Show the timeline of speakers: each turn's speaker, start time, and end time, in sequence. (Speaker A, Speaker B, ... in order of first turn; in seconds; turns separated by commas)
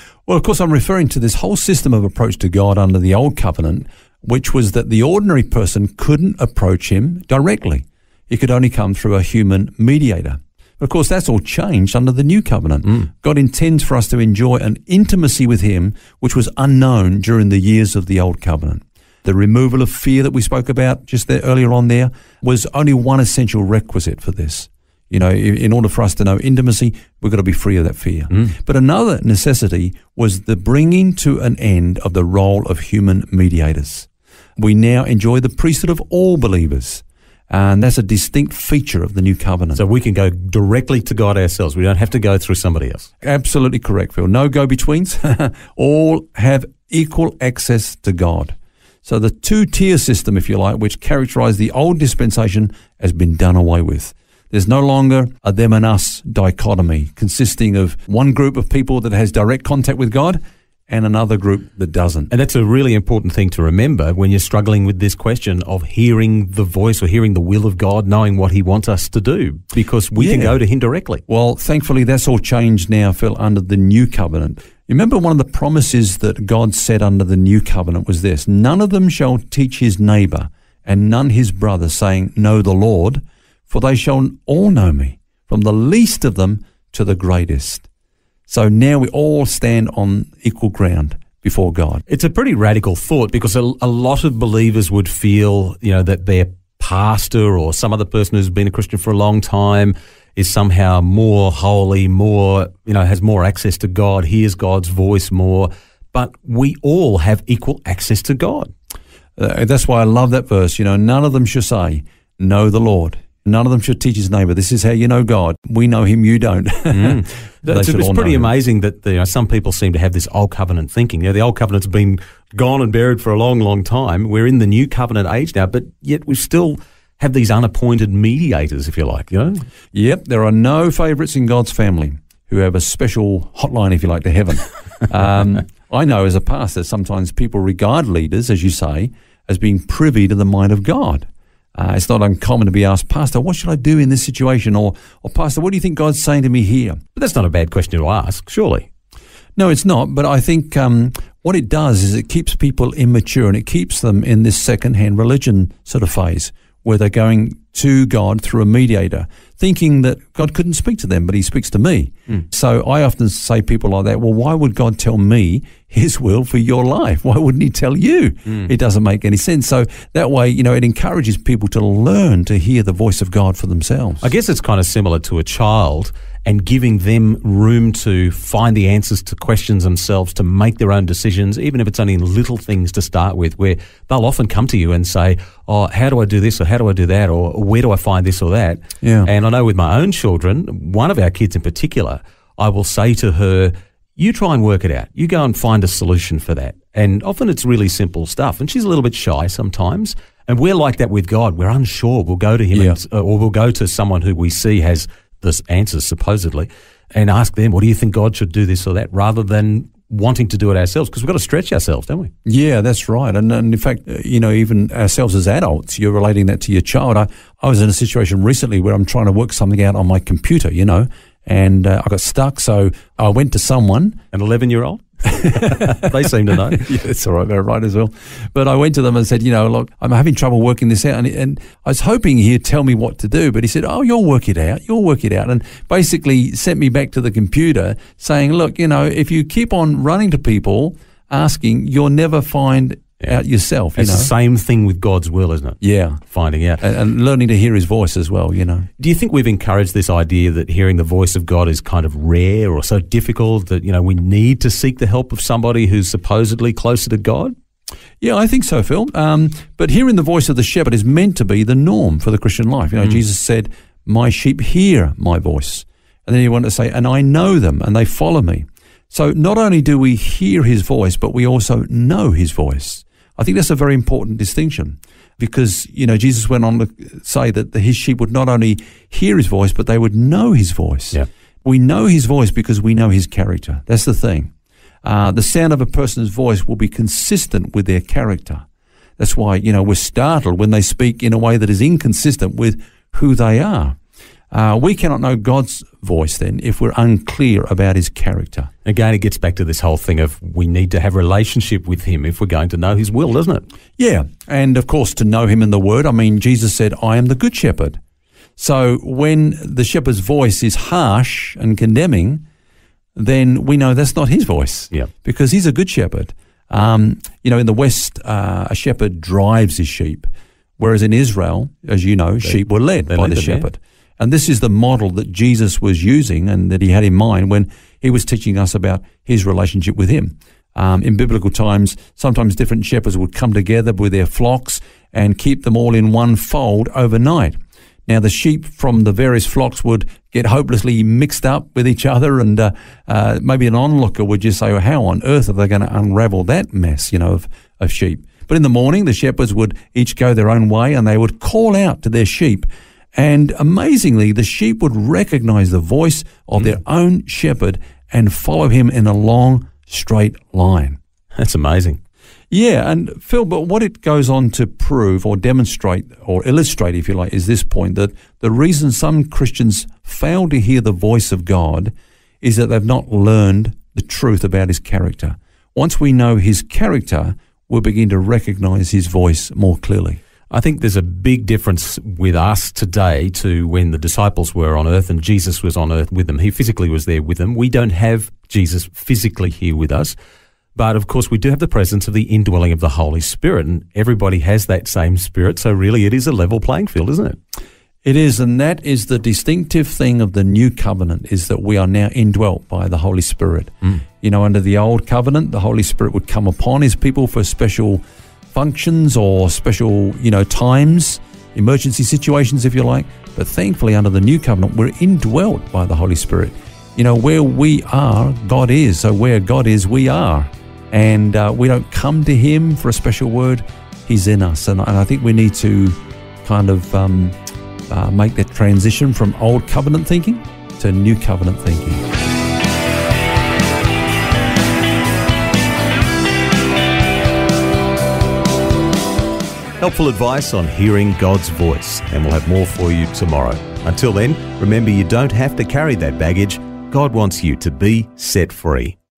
Speaker A: 0.3-39.8, Speaker B: 39.8-43.1, Speaker A: 43.2-62.3, Speaker B: 62.3-71.2, Speaker A: 70.2-70.6, Speaker A: 71.3-87.9, Speaker A: 88.5-92.0, Speaker B: 92.1-108.7, Speaker A: 109.4-118.5, Speaker B: 116.9-129.6, Speaker A: 129.9-147.0, Speaker B: 147.2-148.9, Speaker A: 149.6-174.2, Speaker B: 174.2-212.3, Speaker A: 189.0-189.3, Speaker A: 212.4-224.2, Speaker B: 224.3-226.8, Speaker A: 225.3-225.7, Speaker A: 226.8-244.3, Speaker B: 243.9-245.8, Speaker A: 245.8-246.2, Speaker B: 246.3-246.8, Speaker A: 246.8-248.9, Speaker B: 249.0-257.5, Speaker A: 258.2-284.5, Speaker A: 285.0-288.6, Speaker A: 289.2-293.9, Speaker A: 294.5-298.7, Speaker B: 298.9-303.6, Speaker A: 304.0-308.0, Speaker A: 308.6-312.4, Speaker A: 313.1-320.3, Speaker A: 320.8-361.0, Speaker B: 323.1-323.6, Speaker B: 361.4-362.0, Speaker A: 362.5-380.2, Speaker B: 380.5-390.1, Speaker B: 390.8-397.4, Speaker A: 398.0-427.3, Speaker A: 427.9-432.0, Speaker B: 439.8-448.9